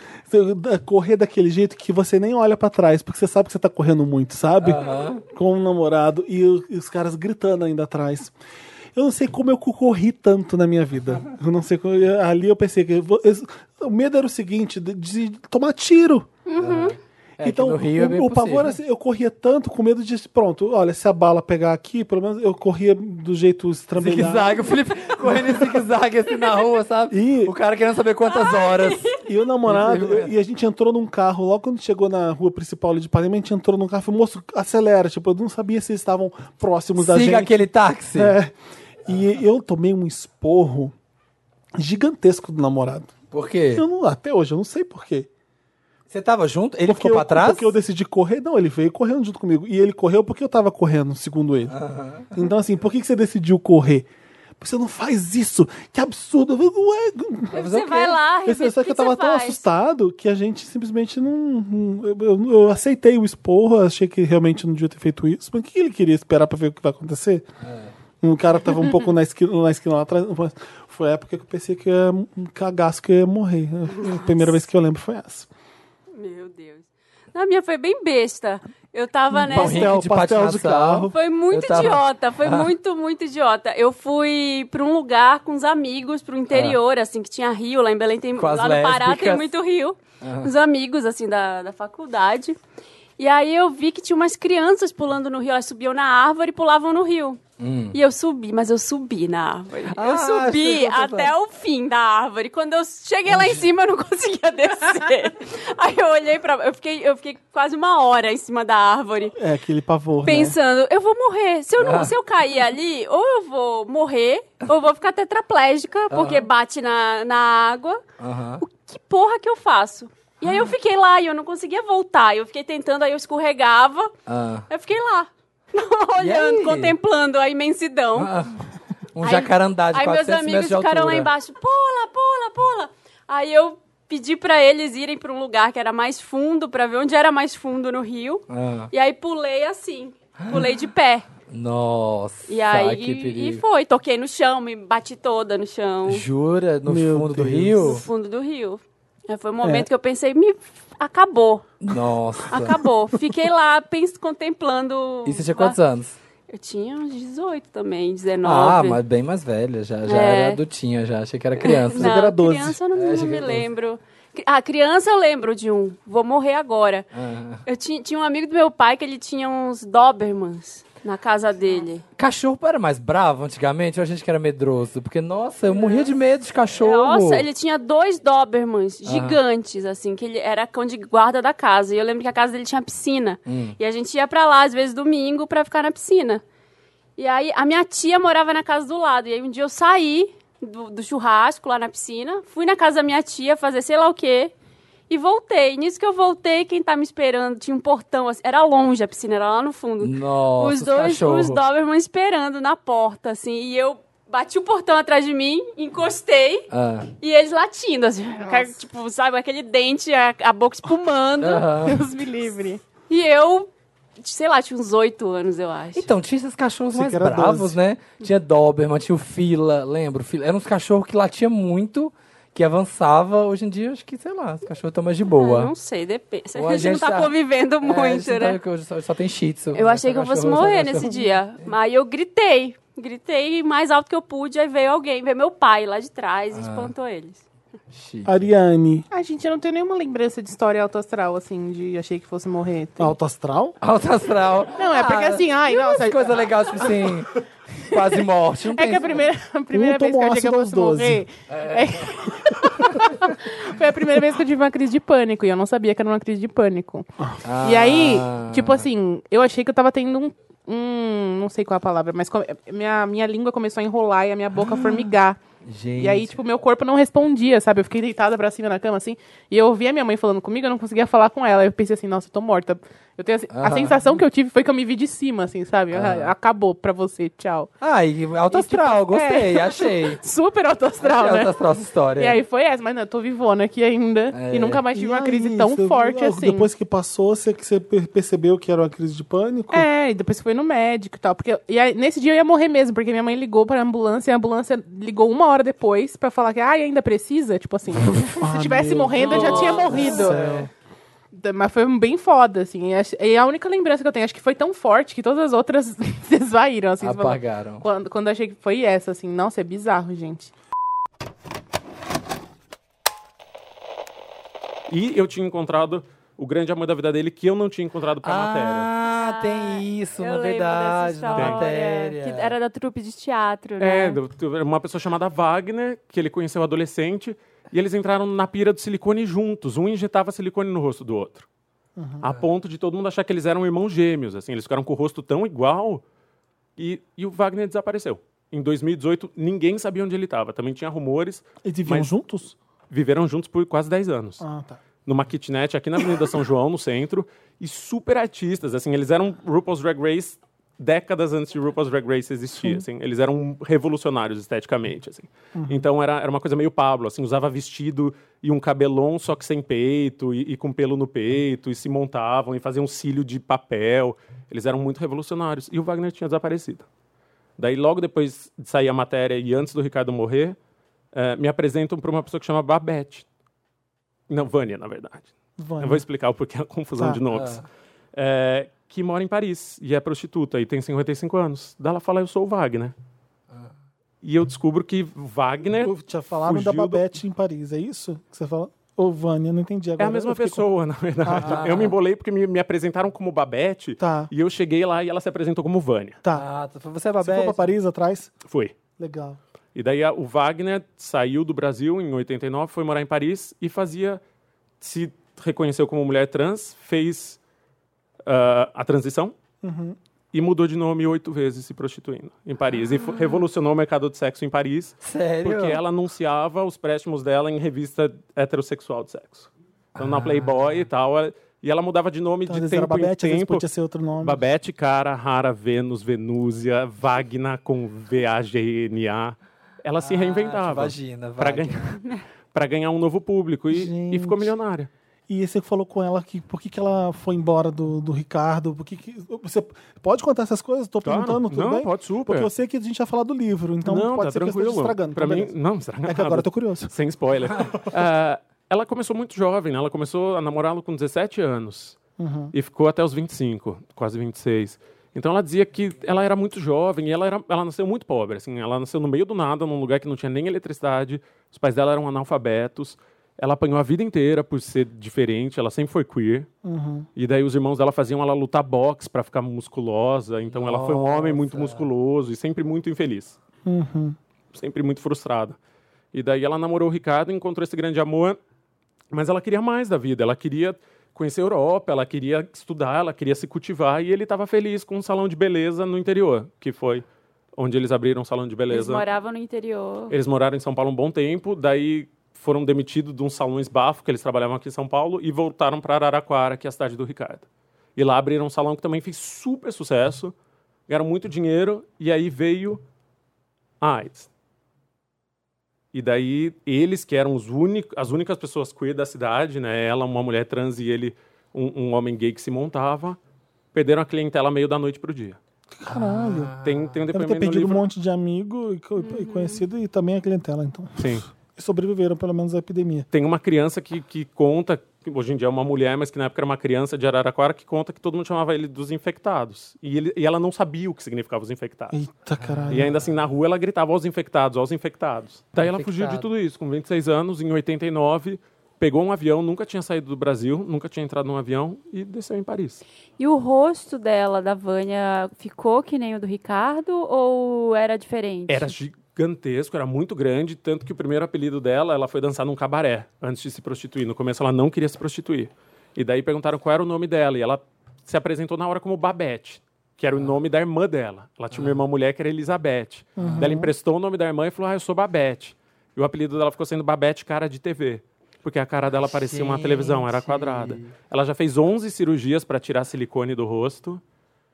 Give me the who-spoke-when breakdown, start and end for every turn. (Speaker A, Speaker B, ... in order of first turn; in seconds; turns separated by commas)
Speaker A: 0.3-8.3, Speaker B: 4.6-5.2, Speaker A: 8.9-16.3, Speaker C: 16.5-16.9, Speaker B: 16.6-18.8, Speaker A: 17.4-24.6, Speaker B: 24.0-29.1, Speaker A: 25.2-25.9, Speaker A: 27.1-27.5, Speaker C: 28.3-29.1, Speaker A: 29.2-37.6, Speaker B: 29.6-30.3, Speaker B: 37.0-38.4, Speaker A: 38.1-40.9, Speaker A: 41.8-43.1, Speaker B: 43.3-43.8, Speaker A: 43.7-45.3, Speaker B: 46.1-47.7, Speaker A: 46.9-51.8, Speaker B: 51.7-52.3, Speaker A: 52.3-54.1, Speaker A: 54.6-57.7, Speaker C: 57.5-59.6, Speaker B: 57.5-58.2, Speaker A: 58.5-67.5, Speaker B: 67.6-67.9, Speaker A: 68.2-75.5, Speaker C: 76.1-79.9, Speaker A: 79.3-81.1, Speaker B: 79.5-82.7, Speaker C: 81.1-92.6, Speaker B: 86.5-86.8, Speaker B: 88.4-89.5, Speaker B: 90.2-90.5, Speaker C: 93.2-97.4, Speaker B: 97.6-98.0, Speaker C: 97.9-109.3, Speaker B: 99.9-101.3, Speaker B: 103.3-103.7, Speaker A: 109.4-110.6, Speaker C: 110.2-118.0, Speaker B: 111.8-112.2, Speaker B: 116.1-116.5, Speaker B: 118.2-118.6, Speaker C: 118.6-124.1, Speaker B: 124.3-124.7, Speaker C: 124.7-128.3, Speaker B: 126.2-127.0, Speaker B: 128.2-128.6, Speaker B: 129.2-131.3, Speaker C: 129.2-141.3, Speaker B: 138.5-138.9, Speaker B: 140.4-140.7, Speaker B: 141.5-143.6, Speaker C: 142.5-146.2, Speaker B: 146.1-148.1, Speaker A: 146.9-148.0, Speaker C: 147.8-151.7, Speaker B: 149.6-149.9, Speaker B: 151.8-152.8, Speaker C: 152.5-155.8, Speaker B: 155.2-156.2, Speaker C: 156.5-159.0, Speaker B: 158.4-162.2, Speaker C: 160.1-160.6, Speaker C: 161.6-167.1, Speaker A: 161.9-162.8, Speaker B: 162.9-163.7, Speaker B: 167.1-167.6, Speaker C: 167.7-172.0, Speaker B: 172.2-177.4, Speaker C: 175.7-176.1, Speaker C: 176.8-186.4, Speaker B: 179.1-179.4, Speaker B: 183.5-183.8, Speaker C: 187.2-194.5, Speaker C: 195.1-206.7, Speaker B: 200.0-201.6, Speaker B: 206.7-207.1, Speaker C: 207.2-211.7, Speaker D: 208.4-208.8, Speaker B: 211.4-212.0, Speaker D: 211.8-212.8, Speaker C: 213.1-216.1, Speaker B: 215.9-225.7, Speaker A: 216.9-217.8, Speaker C: 225.3-228.6, Speaker B: 226.6-231.7, Speaker C: 229.8-237.4, Speaker B: 236.5-236.9, Speaker B: 237.9-238.5, Speaker A: 238.2-239.1, Speaker D: 239.1-243.2, Speaker A: 243.0-243.8, Speaker B: 243.8-249.2, Speaker D: 244.8-246.9, Speaker D: 248.7-257.1, Speaker A: 249.7-251.2, Speaker B: 251.5-252.1, Speaker B: 257.4-258.9, Speaker D: 257.6-265.4, Speaker A: 264.6-265.0, Speaker B: 265.6-266.4, Speaker D: 266.0-277.7, Speaker B: 273.5-274.2, Speaker B: 275.9-276.3, Speaker B: 277.8-280.2, Speaker D: 278.5-281.6, Speaker B: 281.0-282.4, Speaker D: 282.2-286.7, Speaker B: 284.3-284.8, Speaker A: 284.9-289.9, Speaker D: 289.7-300.6, Speaker A: 298.4-300.6, Speaker B: 299.2-300.7, Speaker C: 299.4-299.8, Speaker D: 301.3-310.5, Speaker B: 307.0-307.9, Speaker E: 314.9-318.9, Speaker B: 318.2-322.5, Speaker C: 319.1-324.2, Speaker E: 321.3-321.6, Speaker E: 323.8-331.5, Speaker A: 332.0-332.2, Speaker E: 332.2-336.0, Speaker E: 336.8-342.1, Speaker A: 341.6-342.6, Speaker E: 342.9-344.4, Speaker A: 344.4-344.8, Speaker E: 345.1-366.9, Speaker A: 355.6-355.9, Speaker E: 367.6-370.6, Speaker E: 371.1-373.3, Speaker E: 374.3-377.6, Speaker A: 375.6-376.1, Speaker B: 377.3-377.6, Speaker E: 378.1-382.9, Speaker E: 384.2-387.1, Speaker A: 385.7-390.6, Speaker E: 390.0-396.2, Speaker A: 391.2-391.9, Speaker B: 391.4-391.9, Speaker A: 394.0-394.3, Speaker B: 396.4-397.7, Speaker A: 397.2-398.3, Speaker E: 398.5-398.7, Speaker A: 399.0-399.4, Speaker E: 399.8-404.2, Speaker E: 404.8-407.4, Speaker E: 408.3-409.4, Speaker A: 409.6-410.0, Speaker E: 410.3-423.6, Speaker B: 415.0-415.8, Speaker B: 420.0-420.8, Speaker A: 422.5-424.4, Speaker E: 424.2-432.0, Speaker B: 430.0-432.0, Speaker E: 432.5-434.9, Speaker A: 433.7-434.5, Speaker A: 435.3-445.5, Speaker E: 441.0-442.5, Speaker E: 443.9-452.0, Speaker A: 446.1-446.9, Speaker A: 452.2-452.5, Speaker E: 452.5-466.5, Speaker A: 466.6-467.1, Speaker E: 467.2-473.4, Speaker B: 470.5-471.9, Speaker A: 473.6-474.2, Speaker E: 474.5-475.6, Speaker E: 476.1-478.4, Speaker E: 479.1-487.1, Speaker E: 487.6-489.1, Speaker C: 488.7-490.2, Speaker E: 490.1-500.3, Speaker E: 500.9-502.8, Speaker E: 503.8-504.3, Speaker E: 505.9-513.2, Speaker E: 513.7-515.4, Speaker A: 515.7-516.5, Speaker B: 515.9-517.0, Speaker E: 516.6-517.8, Speaker A: 517.1-523.1, Speaker C: 519.0-519.6, Speaker E: 521.0-521.2, Speaker E: 523.1-532.0, Speaker A: 531.9-532.9, Speaker B: 532.4-532.9, Speaker E: 532.7-542.8, Speaker B: 535.6-536.3, Speaker C: 543.2-548.8, Speaker E: 548.5-574.0, Speaker B: 561.5-561.8, Speaker A: 563.2-563.7, Speaker B: 563.2-563.6, Speaker B: 569.0-570.9